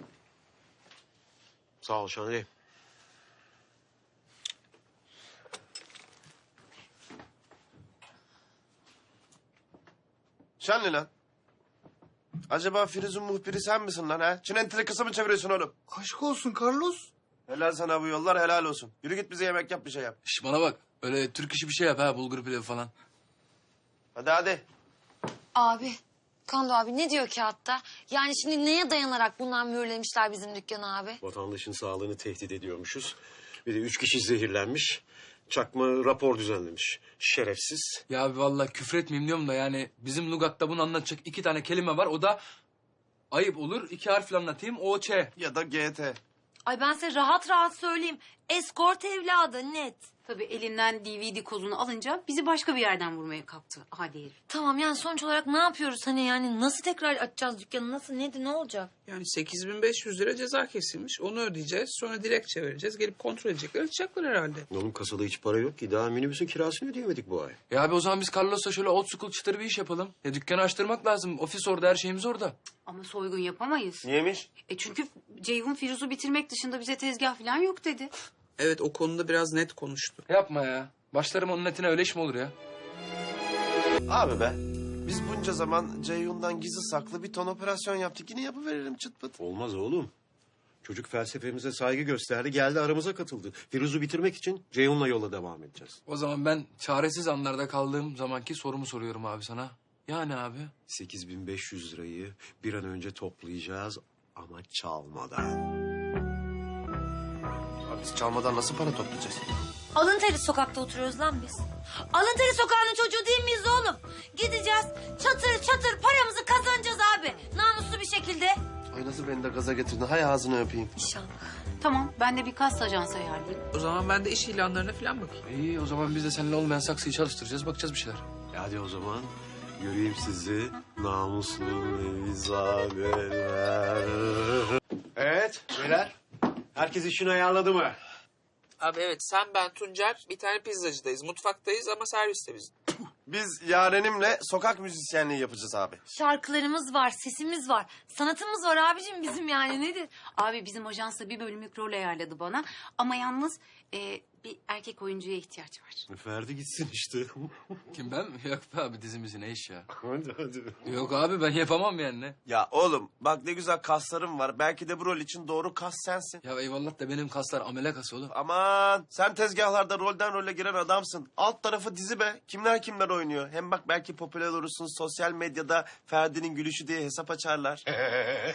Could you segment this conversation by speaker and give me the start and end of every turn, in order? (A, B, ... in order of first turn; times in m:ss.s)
0:01.8-0:02.5 A
0:10.6-0:11.1 B
0:12.5-0:15.7 B
0:17.5-0:20.2 B
0:20.2-0:22.9 C
0:24.1-0:24.6 B
0:25.6-0:31.2 D
0:31.2-0:38.0 A
0:38.1-0:42.4 C
0:43.3-0:45.3 C
0:45.4-0:46.2 B
0:46.6-0:50.0 D
0:50.2-0:54.3 E
0:54.5-0:58.9 D
0:59.0-1:04.6 F
1:04.7-1:07.6 A
1:07.7-1:12.5 C
1:12.8-1:14.0 E
1:14.0-1:14.5 B
1:14.7-1:18.1 E
1:18.6-1:20.2 F
1:20.3-1:22.5 C
1:24.1-1:29.4 B
1:29.4-1:30.1 A
1:30.8-1:36.0 A
1:36.1-1:40.7 C
1:40.9-1:45.6 A
1:47.9-1:49.4 B
1:49.9-1:58.6 D
1:58.9-2:00.9 B
2:01.0-2:01.4 D
2:01.8-2:03.6 E
2:03.7-2:05.3 F
2:05.4-2:08.2 C
2:08.5-2:14.5 A
2:15.2-2:16.1 A
2:16.7-2:18.0 A
2:18.8-2:22.7 F
2:23.2-2:26.0 B
2:26.1-2:30.1 D
2:30.3-2:36.0 E
2:36.1-2:37.7 A
2:37.9-2:39.9 C
2:40.0-2:40.8 A
2:40.8-2:42.4 C
2:42.4-2:46.4 B
2:46.4-2:48.3 C
2:48.3-2:57.8 B